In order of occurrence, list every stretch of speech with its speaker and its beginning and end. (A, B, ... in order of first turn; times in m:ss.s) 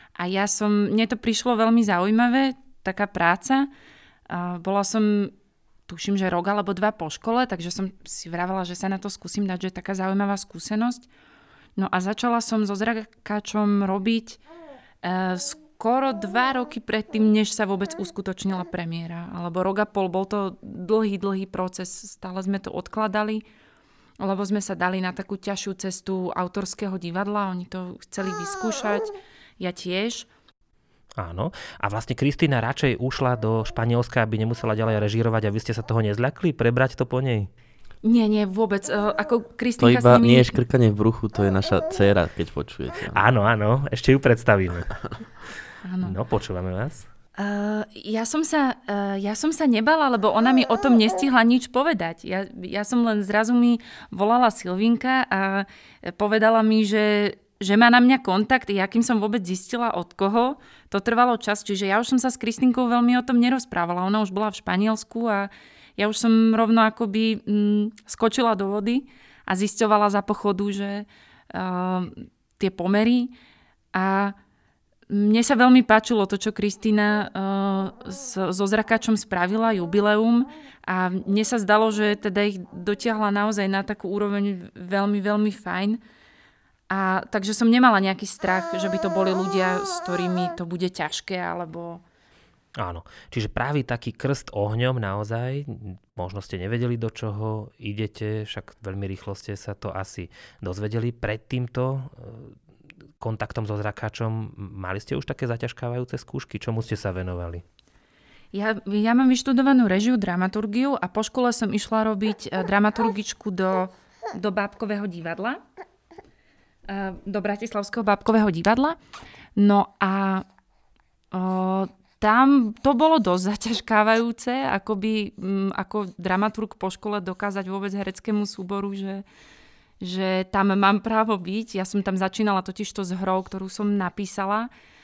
0:00.2-0:03.7 A
0:04.3-0:05.3 A
0:05.9-0:11.0 A
0:11.8-0:14.4 A
0:15.0-0:23.4 A
0:24.2-0:30.3 A
0:31.2-0:37.5 B
0:38.0-0:40.6 A
0:39.8-0:43.2 C
0:43.1-0:44.9 B
0:45.8-0:46.2 A
0:46.0-0:47.1 B
0:47.4-1:13.3 A
1:13.9-1:14.4 A
1:15.1-1:26.0 A
1:26.9-1:32.0 A
1:32.8-1:42.5 B
1:43.2-1:47.6 B
1:48.5-1:55.6 A
1:56.9-1:59.0 A
1:59.6-2:00.4 A
2:01.3-2:09.2 A
2:10.0-2:14.7 A